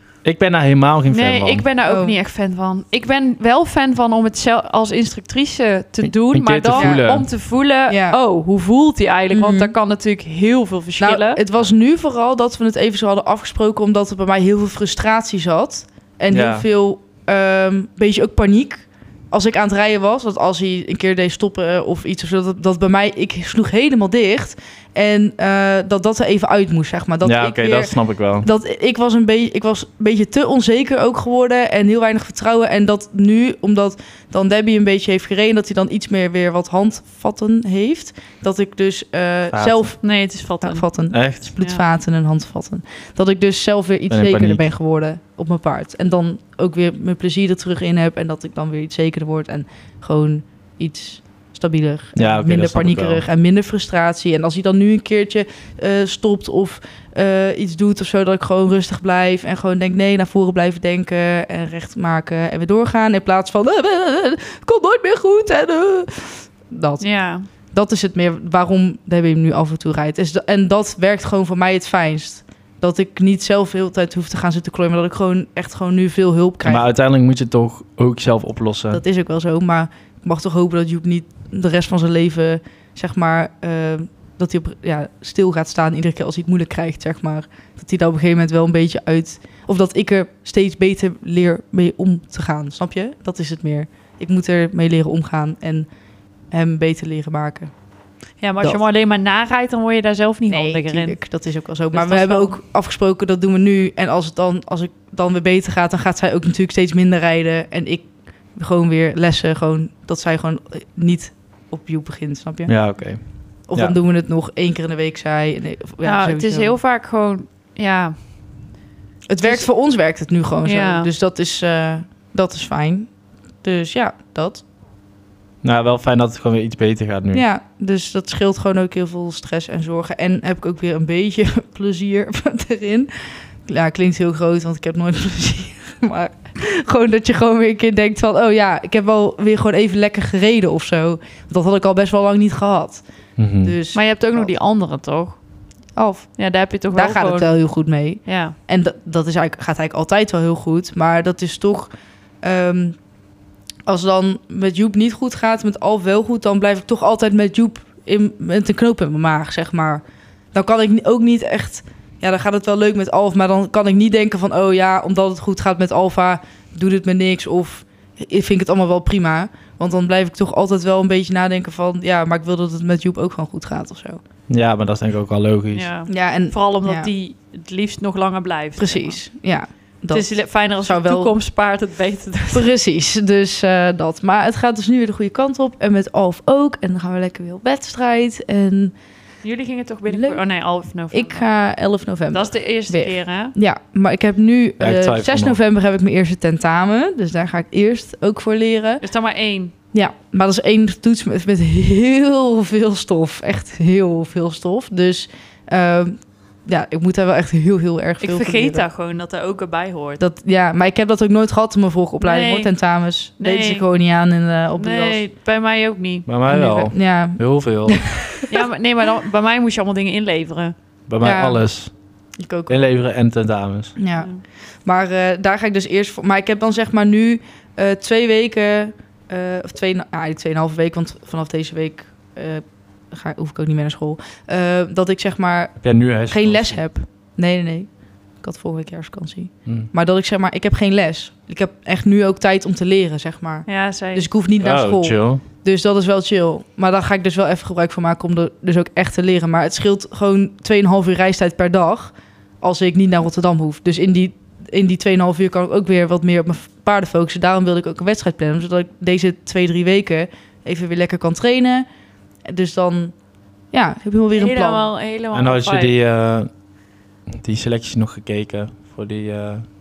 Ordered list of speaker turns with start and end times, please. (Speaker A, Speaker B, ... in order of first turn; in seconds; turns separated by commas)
Speaker A: 0.2-1.6, Speaker B: 1.1-11.4, Speaker C: 1.8-2.2, Speaker A: 6.0-7.3, Speaker C: 6.7-7.1, Speaker C: 7.9-8.2, Speaker C: 9.3-9.7, Speaker C: 11.0-67.0, Speaker A: 16.3-16.6, Speaker A: 27.2-28.5, Speaker A: 39.5-39.9, Speaker B: 40.0-40.8, Speaker A: 41.1-41.5, Speaker A: 44.1-44.6, Speaker A: 52.1-53.2, Speaker B: 67.0-67.5, Speaker C: 67.7-76.8, Speaker A: 76.6-79.0, Speaker C: 78.9-95.9, Speaker C: 96.5-97.7, Speaker B: 98.4-101.2, Speaker C: 100.5-112.9, Speaker B: 101.9-102.5, Speaker A: 112.7-113.9, Speaker C: 113.7-116.8, Speaker B: 116.0-118.2, Speaker C: 119.3-124.6, Speaker B: 119.4-119.7, Speaker B: 120.6-121.1, Speaker A: 125.6-127.4, Speaker C: 127.3-133.1, Speaker C: 133.6-143.0, Speaker A: 143.4-143.7, Speaker C: 143.6-144.5, Speaker B: 143.9-145.4, Speaker C: 145.9-151.9, Speaker B: 146.4-147.5, Speaker B: 148.2-148.6, Speaker C: 152.4-153.0, Speaker C: 153.8-160.0, Speaker C: 160.5-174.2, Speaker A: 174.5-175.9, Speaker B: 175.7-179.2, Speaker C: 176.1-177.1, Speaker C: 178.8-181.3, Speaker B: 180.1-182.7, Speaker C: 182.5-188.9, Speaker B: 189.4-191.5, Speaker C: 190.1-190.4, Speaker C: 191.1-199.0, Speaker B: 192.3-193.5, Speaker A: 194.8-195.6, Speaker B: 199.0-199.7, Speaker C: 199.9-208.8, Speaker B: 208.2-210.2, Speaker C: 210.2-215.2, Speaker B: 212.2-212.7, Speaker B: 213.4-213.8, Speaker B: 214.8-216.3, Speaker A: 216.2-218.1, Speaker C: 216.5-218.5, Speaker B: 218.5-220.7, Speaker A: 221.1-221.9, Speaker C: 221.2-221.7, Speaker C: 222.4-222.8, Speaker A: 222.7-223.9, Speaker C: 224.0-237.9, Speaker A: 235.8-236.8, Speaker C: 238.4-261.9, Speaker B: 243.7-244.3, Speaker A: 244.6-245.4, Speaker C: 262.4-263.1, Speaker C: 263.7-264.9, Speaker B: 264.4-265.9, Speaker A: 265.3-266.5, Speaker A: 267.3-269.6